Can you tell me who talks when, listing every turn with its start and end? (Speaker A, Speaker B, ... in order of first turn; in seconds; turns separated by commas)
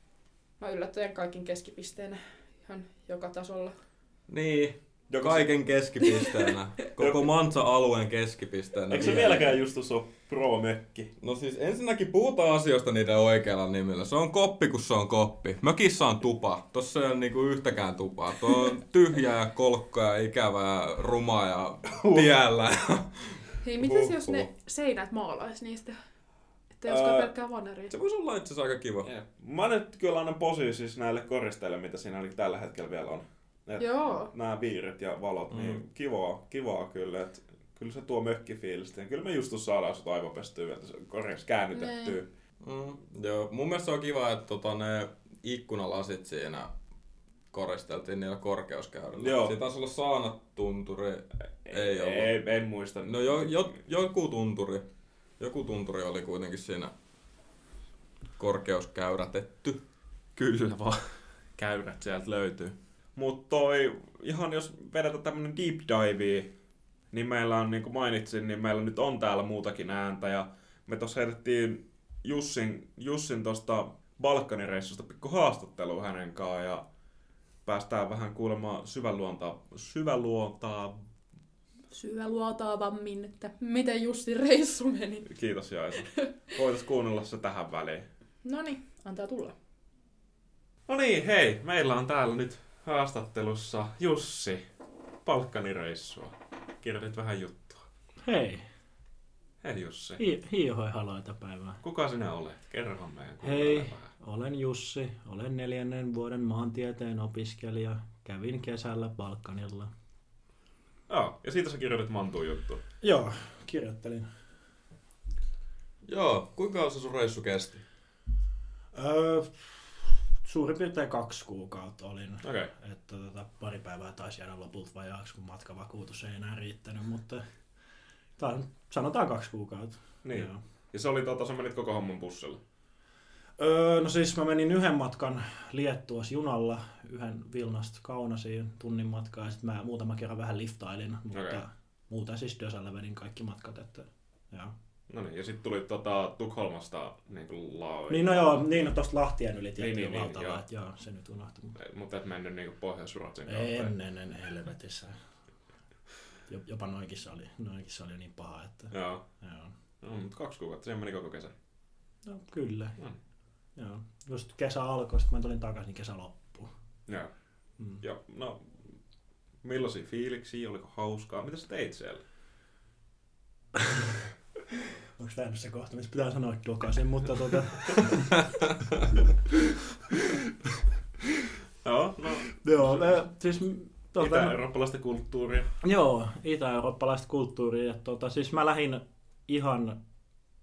Speaker A: 0.6-3.8, Speaker B: 4.3-9.5, Speaker A: 6.0-6.5, Speaker C: 7.0-7.3, Speaker C: 8.9-11.1, Speaker B: 11.2-24.5, Speaker C: 22.0-22.3, Speaker A: 23.6-25.9, Speaker A: 26.8-27.9, Speaker C: 26.9-27.3, Speaker B: 27.9-29.1, Speaker C: 29.0-42.3, Speaker A: 33.8-34.3, Speaker B: 35.5-35.8, Speaker A: 41.7-42.2, Speaker B: 42.6-46.7, Speaker B: 47.5-52.3, Speaker C: 49.2-49.5, Speaker C: 51.6-53.7, Speaker B: 53.0-54.9, Speaker B: 55.4-56.9, Speaker B: 58.4-59.8, Speaker C: 60.4-66.5, Speaker C: 67.1-76.8, Speaker C: 77.6-81.0, Speaker A: 81.9-85.3, Speaker C: 85.3-88.0, Speaker A: 86.0-86.3, Speaker A: 88.4-89.5, Speaker C: 90.9-94.6, Speaker C: 95.2-97.8, Speaker D: 98.2-98.7, Speaker C: 99.6-100.2, Speaker D: 100.2-101.8, Speaker C: 101.8-104.1, Speaker D: 103.4-109.9, Speaker C: 111.1-112.8, Speaker D: 113.0-114.3, Speaker B: 116.0-117.8, Speaker D: 118.9-127.5, Speaker C: 122.4-122.7, Speaker D: 128.4-130.6, Speaker C: 130.2-132.6, Speaker D: 133.6-144.7, Speaker C: 141.3-141.6, Speaker C: 145.1-148.9, Speaker D: 148.1-151.7, Speaker C: 149.8-150.6, Speaker C: 151.8-153.9, Speaker D: 153.5-155.2, Speaker D: 156.5-159.7, Speaker C: 158.9-159.2, Speaker C: 160.0-161.5, Speaker D: 162.2-163.0, Speaker D: 163.8-166.7, Speaker C: 168.0-168.9, Speaker C: 169.6-172.2, Speaker D: 175.2-178.3, Speaker C: 181.8-183.1, Speaker D: 182.5-184.6, Speaker C: 184.2-185.7, Speaker D: 185.8-190.0